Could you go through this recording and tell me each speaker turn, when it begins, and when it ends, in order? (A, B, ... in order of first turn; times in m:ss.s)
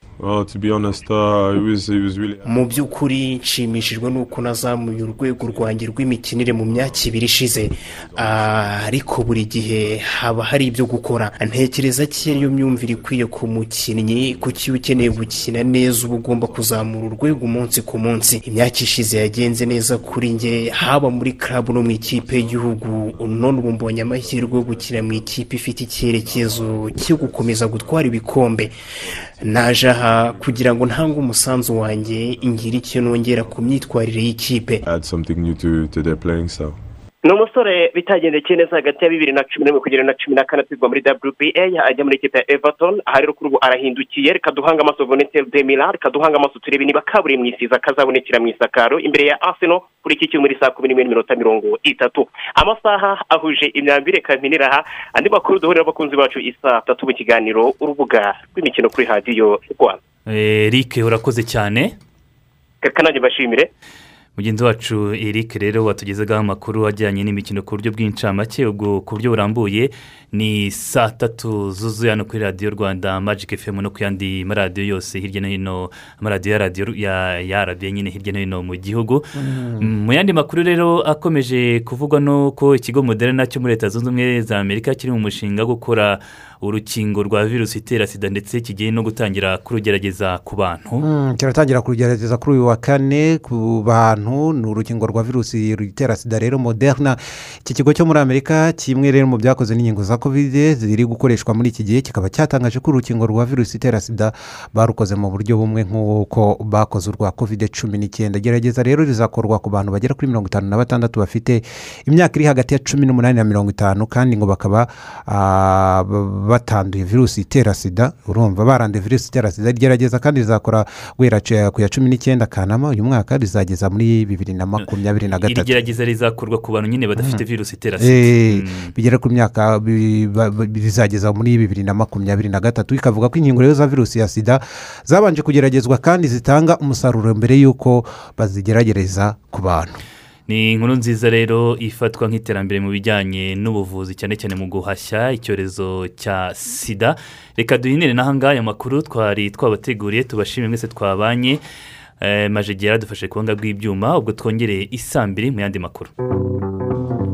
0:00.2-0:02.9 A
0:02.4-0:28.8 B
0:03.7-0:05.9 A
0:06.5-0:07.2 A
0:07.8-0:09.0 A
0:09.7-0:10.0 A
0:12.0-0:13.2 A
0:14.1-0:17.9 A
0:19.2-0:20.8 A
0:21.9-0:23.4 A
0:24.0-0:25.4 A
0:26.1-0:28.2 A
0:29.0-0:30.9 A
0:29.4-0:34.8 B
0:31.7-0:33.9 A
0:34.8-0:36.8 A
0:37.2-1:00.0 C
1:00.3-1:01.9 D
1:02.8-1:03.7 C
1:04.4-1:31.0 D
1:19.3-1:19.9 E
1:31.0-2:05.8 E
2:05.5-2:08.9 D
2:07.2-2:07.4 E
2:08.0-2:19.9 E
2:20.5-2:31.6 D
2:32.2-2:36.1 D